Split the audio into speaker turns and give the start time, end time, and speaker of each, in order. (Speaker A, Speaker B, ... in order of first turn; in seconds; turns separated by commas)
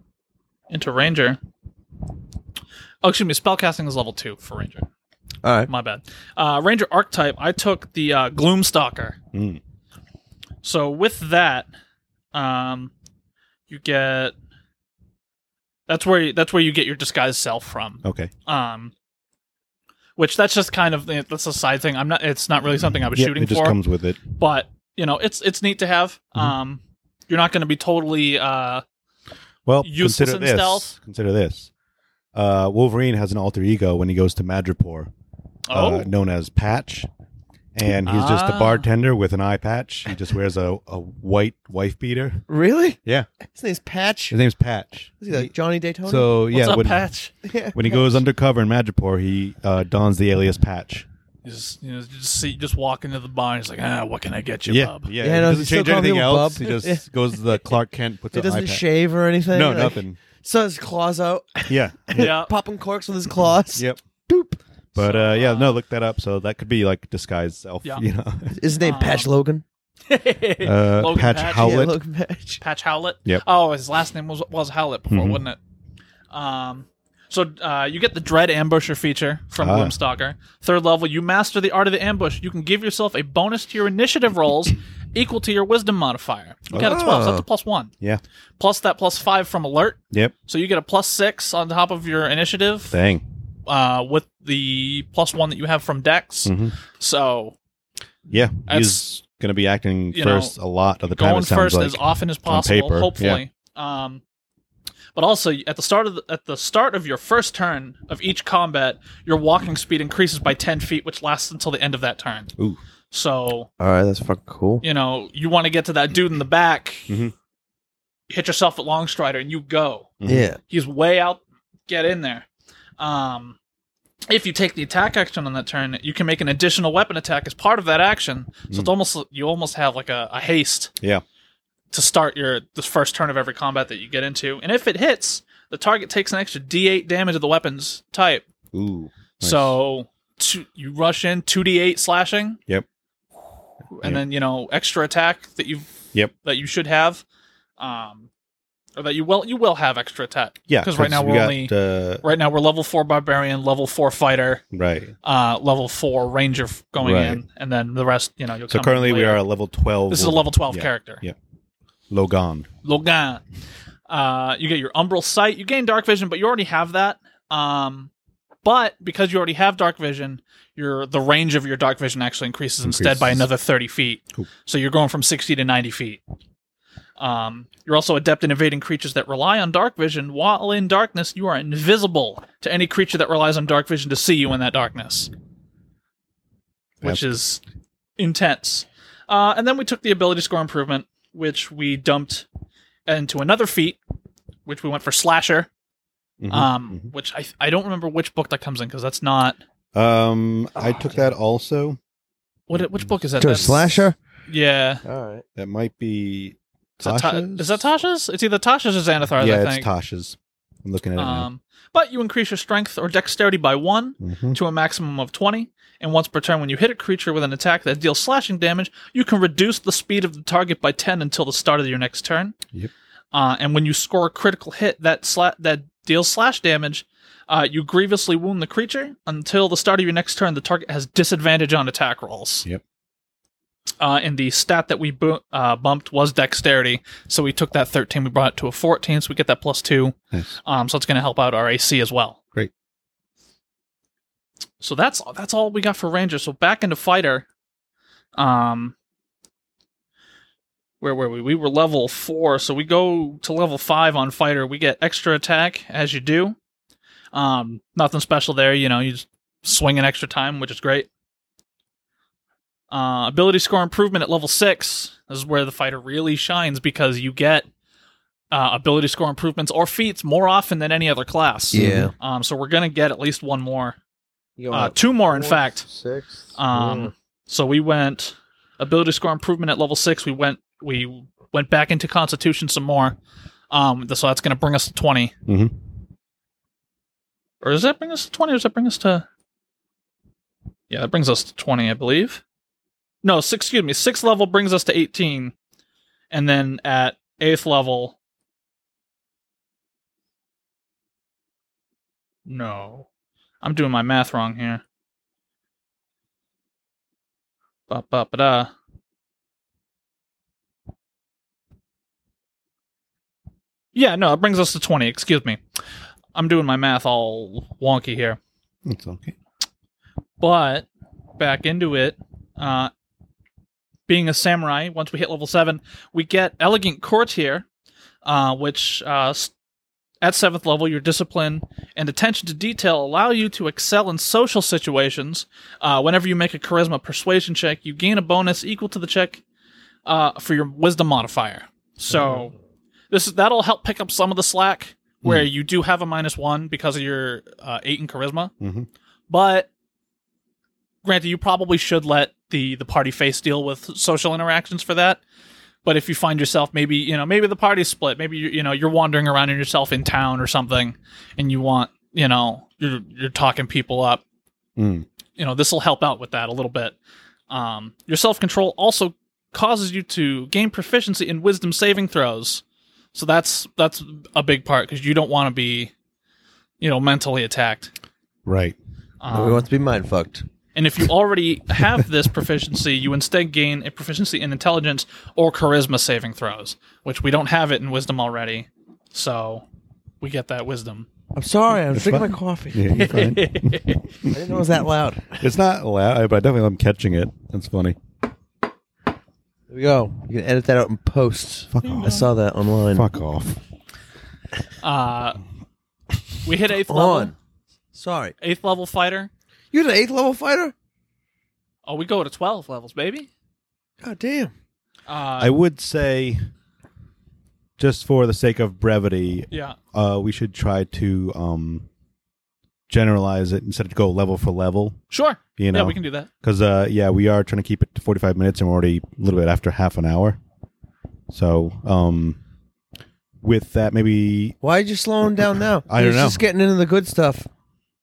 Speaker A: 0.7-1.4, Speaker A: 3.0-4.9, Speaker B: 5.4-5.7, Speaker A: 5.7-9.2, Speaker C: 9.3-9.6, Speaker A: 10.6-11.7, Speaker A: 12.3-12.9, Speaker A: 13.7-14.3, Speaker A: 15.9-18.9, Speaker C: 18.0-18.3, Speaker A: 20.2-23.8, Speaker C: 23.1-24.2, Speaker A: 24.3-28.8, Speaker C: 29.6-31.7, Speaker A: 29.8-30.9, Speaker C: 32.3-35.1, Speaker A: 35.7-36.1, Speaker C: 35.7-37.1, Speaker C: 37.7-42.4, Speaker A: 38.0-38.9, Speaker B: 42.5-44.4, Speaker C: 44.3-45.5, Speaker B: 45.2-46.3, Speaker C: 46.0-47.1, Speaker A: 46.5-47.3, Speaker B: 47.4-48.1, Speaker C: 47.7-51.0, Speaker A: 51.4-55.1, Speaker C: 54.6-58.8, Speaker B: 55.2-57.0, Speaker B: 58.3-64.6, Speaker C: 59.5-60.2, Speaker C: 61.7-62.4, Speaker A: 62.1-62.5, Speaker C: 63.7-64.0, Speaker C: 64.9-68.6, Speaker A: 65.0-65.8, Speaker B: 68.5-69.6, Speaker A: 68.8-69.3, Speaker A: 70.1-72.0, Speaker C: 70.6-72.0, Speaker B: 71.5-72.6, Speaker A: 72.6-75.6, Speaker C: 75.1-75.4, Speaker A: 76.3-87.9, Speaker C: 79.6-80.0, Speaker B: 86.8-87.4, Speaker A: 88.6-93.0, Speaker C: 92.9-93.2, Speaker A: 93.7-97.5, Speaker C: 96.4-96.7, Speaker C: 98.3-103.4, Speaker A: 98.7-99.0, Speaker A: 100.1-100.5, Speaker A: 101.1-104.2, Speaker A: 105.1-112.5, Speaker A: 113.1-113.7, Speaker B: 113.8-114.8, Speaker A: 114.8-117.2, Speaker A: 118.3-122.5, Speaker C: 120.2-120.5, Speaker B: 120.2-120.6, Speaker A: 123.0-123.5, Speaker A: 124.3-130.9, Speaker A: 131.9-138.4, Speaker C: 138.7-139.8, Speaker A: 139.4-142.6, Speaker A: 143.9-145.9, Speaker A: 146.4-147.2, Speaker A: 147.8-148.3, Speaker A: 148.9-154.6, Speaker C: 150.7-152.2, Speaker C: 154.7-155.1, Speaker A: 155.2-159.4, Speaker C: 157.0-157.4, Speaker C: 158.7-161.3, Speaker A: 160.1-161.2, Speaker C: 162.1-162.7, Speaker A: 162.8-163.4, Speaker A: 164.1-168.1, Speaker A: 168.6-176.2, Speaker C: 172.8-173.4, Speaker A: 177.2-185.3, Speaker A: 187.0-187.6, Speaker A: 188.2-192.4, Speaker A: 193.1-194.0, Speaker A: 194.7-195.7, Speaker C: 196.4-197.1, Speaker A: 196.5-199.6, Speaker C: 199.9-202.0, Speaker A: 202.7-203.9, Speaker C: 202.7-203.9, Speaker B: 203.4-204.2, Speaker A: 204.5-205.0, Speaker B: 205.0-205.4, Speaker C: 205.6-207.9, Speaker A: 207.0-209.9, Speaker C: 209.4-211.5, Speaker A: 211.2-222.5, Speaker C: 214.2-214.6, Speaker A: 223.3-232.7, Speaker A: 234.0-242.4, Speaker A: 244.8-247.4, Speaker A: 248.3-248.9, Speaker A: 251.0-256.6, Speaker A: 257.3-261.1, Speaker A: 262.9-267.7, Speaker A: 268.5-274.0, Speaker B: 271.7-272.1, Speaker C: 271.7-272.1, Speaker B: 274.6-277.1, Speaker A: 274.7-275.9, Speaker A: 276.6-283.2, Speaker A: 283.7-285.3, Speaker C: 285.5-285.7, Speaker A: 287.6-289.2, Speaker A: 290.9-292.4, Speaker A: 293.2-295.5, Speaker A: 296.3-298.1, Speaker A: 302.4-303.1, Speaker A: 303.6-304.8, Speaker A: 307.9-308.7, Speaker A: 313.9-315.6, Speaker A: 316.3-318.4, Speaker C: 318.8-319.3, Speaker A: 320.4-320.9, Speaker A: 321.4-322.9, Speaker A: 324.1-327.6, Speaker A: 328.2-329.5, Speaker A: 330.2-339.4, Speaker A: 340.1-342.5, Speaker A: 343.1-348.5, Speaker C: 345.2-345.5, Speaker C: 348.6-348.9, Speaker A: 349.3-349.7, Speaker A: 351.0-355.2, Speaker A: 355.8-364.2, Speaker C: 364.8-365.1, Speaker A: 365.4-366.9, Speaker A: 367.5-372.6, Speaker A: 373.1-375.9, Speaker A: 376.8-377.9, Speaker C: 378.4-378.8, Speaker A: 379.2-379.6, Speaker B: 379.3-380.4, Speaker A: 380.7-389.6, Speaker A: 390.2-391.1, Speaker B: 391.3-393.1, Speaker C: 391.9-394.8, Speaker A: 392.9-394.0, Speaker B: 394.2-395.4, Speaker C: 395.3-397.9, Speaker B: 399.7-403.1, Speaker C: 401.7-402.2, Speaker A: 401.9-402.2, Speaker C: 402.9-403.6, Speaker A: 404.8-405.4, Speaker A: 406.4-407.3, Speaker B: 406.9-407.3, Speaker B: 407.9-408.3, Speaker A: 408.4-409.3, Speaker B: 409.7-410.7, Speaker A: 411.9-413.3, Speaker B: 414.0-414.5, Speaker A: 415.1-415.6, Speaker C: 415.4-416.4, Speaker C: 417.8-421.9, Speaker A: 419.5-419.8, Speaker C: 422.9-425.0, Speaker A: 425.1-426.3, Speaker C: 425.6-430.4, Speaker C: 431.3-432.4, Speaker C: 433.4-434.6, Speaker B: 434.6-437.5, Speaker C: 435.9-436.4